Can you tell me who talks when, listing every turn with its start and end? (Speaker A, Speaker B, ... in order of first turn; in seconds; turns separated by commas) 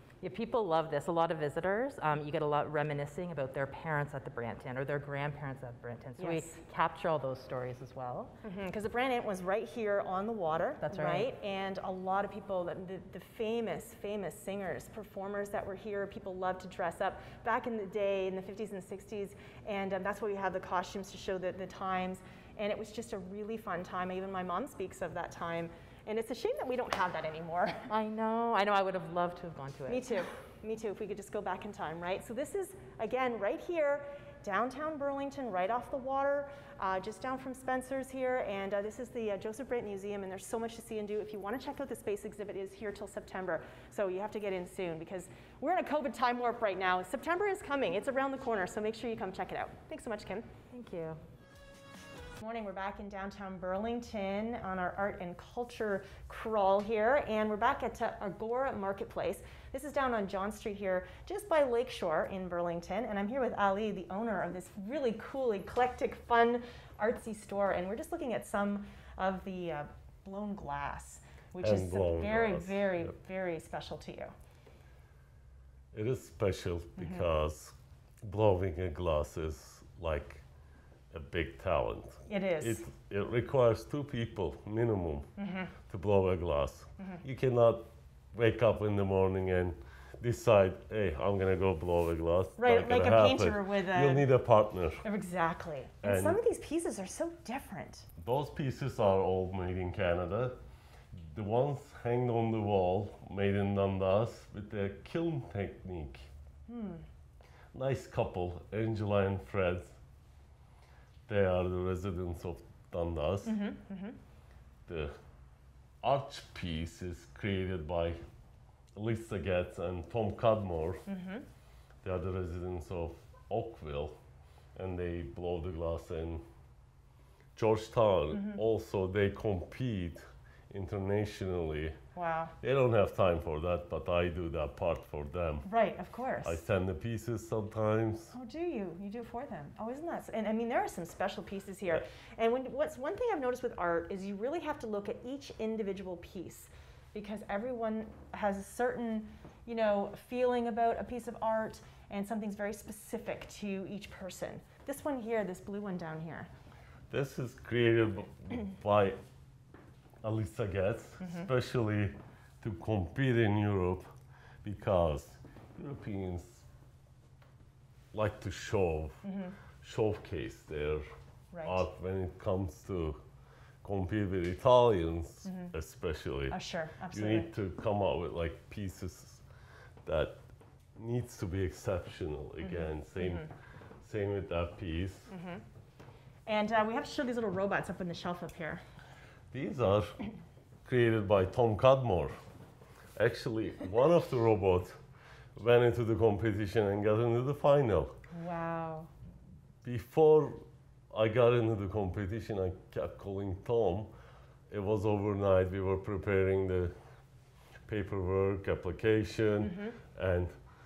Speaker A: 0.2-8.3, Speaker B: 6.2-6.6, Speaker B: 8.4-27.9, Speaker A: 10.8-11.3, Speaker A: 27.9-30.1, Speaker B: 29.9-50.5, Speaker A: 50.7-51.2, Speaker B: 52.4-74.3, Speaker C: 71.6-73.1, Speaker C: 75.9-80.4, Speaker B: 77.0-77.3, Speaker C: 81.1-85.3, Speaker B: 82.3-82.8, Speaker B: 85.4-85.7, Speaker C: 85.9-95.0, Speaker B: 92.6-94.3, Speaker B: 95.0-98.1, Speaker C: 96.0-96.4, Speaker C: 98.2-100.6, Speaker C: 101.1-106.3, Speaker B: 106.7-107.0, Speaker C: 107.7-110.0, Speaker C: 111.3-113.6, Speaker B: 113.5-114.2, Speaker C: 114.9-115.1, Speaker C: 116.0-118.2, Speaker C: 119.0-121.1, Speaker B: 121.1-121.5, Speaker C: 122.0-124.2, Speaker C: 124.8-126.4, Speaker C: 127.6-132.0, Speaker B: 128.3-128.6, Speaker B: 132.2-132.5, Speaker C: 132.6-135.7, Speaker B: 135.7-136.6, Speaker C: 136.4-138.3, Speaker B: 138.3-156.5, Speaker C: 157.1-159.2, Speaker C: 160.2-164.1, Speaker B: 161.2-161.5, Speaker C: 164.6-166.7, Speaker C: 168.1-169.2, Speaker B: 169.2-169.6, Speaker C: 169.8-171.1, Speaker B: 171.5-171.9, Speaker C: 171.7-173.2, Speaker C: 173.8-176.6, Speaker B: 175.4-175.7, Speaker B: 176.5-177.5, Speaker C: 177.1-179.4, Speaker C: 180.1-180.4, Speaker C: 181.0-183.5, Speaker B: 182.6-183.5, Speaker C: 184.0-185.3, Speaker B: 185.3-185.6, Speaker B: 186.5-188.8, Speaker C: 189.5-190.2, Speaker C: 190.9-192.3, Speaker C: 193.2-195.0, Speaker C: 195.6-198.2, Speaker B: 198.3-199.1, Speaker C: 199.8-204.1, Speaker C: 204.7-206.9, Speaker C: 207.9-210.6, Speaker B: 209.6-209.9